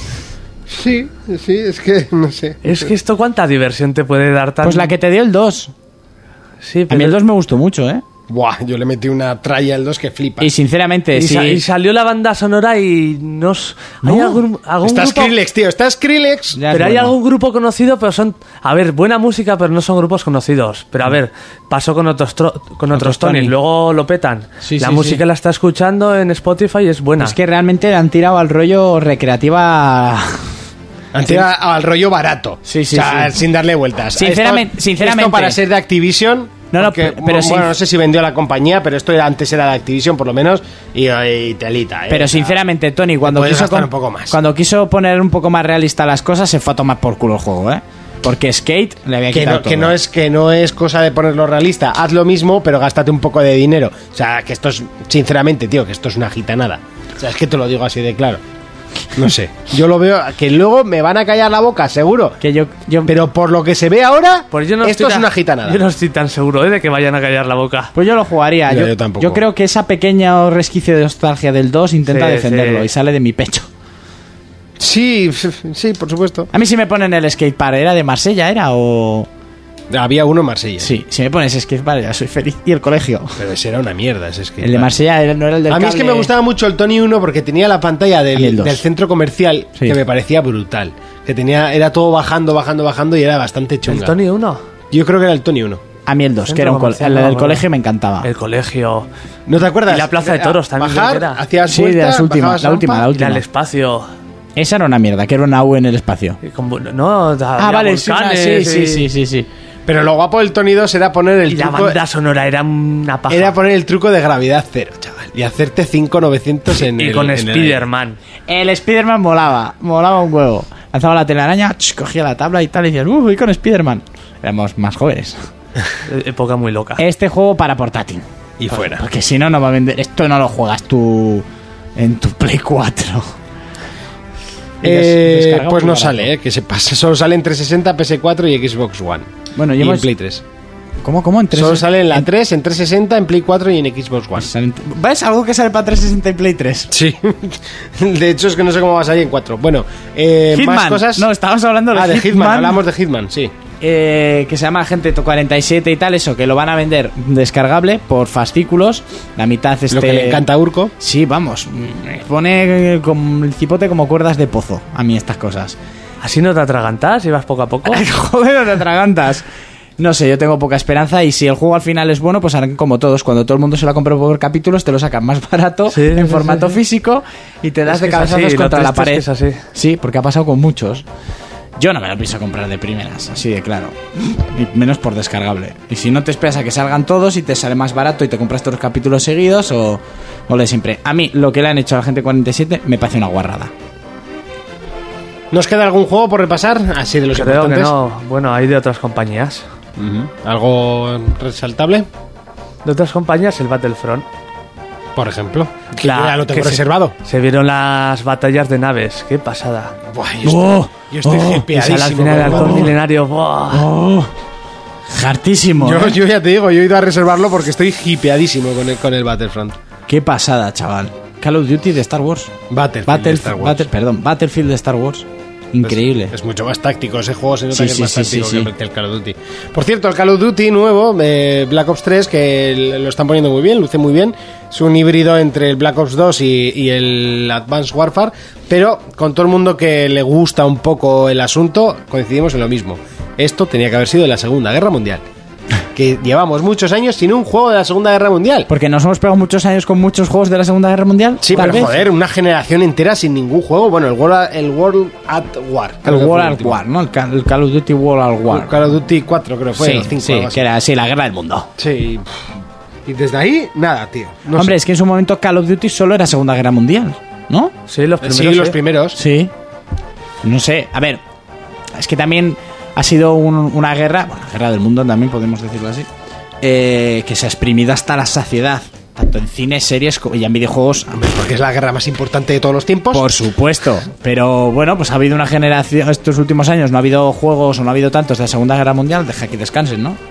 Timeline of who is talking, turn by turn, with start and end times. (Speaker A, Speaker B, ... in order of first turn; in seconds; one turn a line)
Speaker A: 0.7-2.9
Speaker B: 2.6-4.9
Speaker C: 4.6-5.7
Speaker B: 6.6-7.2
Speaker C: 6.9-8.0
Speaker A: 8.3-10.5
Speaker C: 10.4-11.6
Speaker B: 11.1-15.3
Speaker C: 14.0-14.4
Speaker A: 14.8-16.6
Speaker C: 16.5-17.2
Speaker B: 16.7-27.4
Speaker C: 22.9-23.5
Speaker C: 24.6-25.2
Speaker C: 27.2-30.5
Speaker A: 31.1-42.6
Speaker C: 31.2-31.5
Speaker C: 32.7-33.4
Speaker C: 34.2-35.6
Speaker C: 36.7-37.7
Speaker C: 42.1-50.0
Speaker A: 43.2-44.4
Speaker A: 49.3-58.4
Speaker A: 59.1-62.4
Speaker C: 62.4-63.1
Speaker A: 63.1-65.8
Speaker B: 64.5-67.9
Speaker C: 68.0-73.7
Speaker A: 68.7-69.4
Speaker B: 72.1-72.9
Speaker A: 74.8-76.5
Speaker C: 76.5-79.3
Speaker A: 79.9-80.9
Speaker C: 80.8-83.4
Speaker A: 83.4-84.9
Speaker C: 84.6-86.3
Speaker A: 85.7-94.2
Speaker C: 88.3-88.8
Speaker B: 93.9-94.6
Speaker A: 94.9-95.8
Speaker C: 96.1-98.3
Speaker B: 96.5-97.7
Speaker B: 98.2-99.1
Speaker A: 99.5-103.1
Speaker B: 99.9-101.4
Speaker C: 101.7-103.4
Speaker B: 103.1-104.1
Speaker C: 104.6-106.4
Speaker B: 106.4-109.1
Speaker C: 107.6-109.5
Speaker A: 109.9-112.0
Speaker B: 111.5-113.6
Speaker A: 113.3-117.9
Speaker B: 116.9-118.2
Speaker C: 118.5-125.4
Speaker B: 126.1-127.0
Speaker C: 127.0-133.3
Speaker A: 128.6-129.0
Speaker C: 134.8-136.3
Speaker A: 134.8-139.3
Speaker C: 139.6-140.1
Speaker A: 139.8-140.4
Speaker C: 141.0-142.3
Speaker A: 141.5-144.5
Speaker C: 144.4-146.9
Speaker A: 146.9-151.3
Speaker C: 150.5-152.8
Speaker A: 151.9-153.5
Speaker C: 153.8-160.5
Speaker A: 159.9-160.9
Speaker C: 161.0-165.8
Speaker B: 166.2-168.0
Speaker C: 167.8-169.5
Speaker C: 170.0-181.1
Speaker B: 175.9-176.8
Speaker B: 177.9-179.6
Speaker C: 181.8-193.7
Speaker A: 195.5-197.9
Speaker B: 197.3-199.7
Speaker A: 200.0-202.1
Speaker B: 202.8-204.3
Speaker A: 205.2-207.2
Speaker B: 206.0-210.0
Speaker A: 210.1-212.9
Speaker C: 210.4-212.9
Speaker B: 211.8-213.9
Speaker C: 213.7-214.3
Speaker C: 215.1-216.2
Speaker A: 215.8-219.8
Speaker C: 220.1-222.5
Speaker A: 222.7-223.8
Speaker C: 223.1-226.3
Speaker A: 225.8-245.2
Speaker C: 227.7-228.7
Speaker A: 245.9-248.7
Speaker C: 248.7-252.0
Speaker A: 251.4-256.8
Speaker C: 256.1-258.8
Speaker A: 258.5-260.6
Speaker C: 259.8-261.7
Speaker A: 261.8-262.3
Speaker A: 263.1-264.8
Speaker C: 264.5-267.7
Speaker B: 267.9-268.8
Speaker A: 268.2-269.2
Speaker C: 269.1-269.5
Speaker C: 270.4-271.2
Speaker C: 271.9-276.1
Speaker C: 276.6-281.2
Speaker A: 281.1-283.3
Speaker C: 283.1-290.2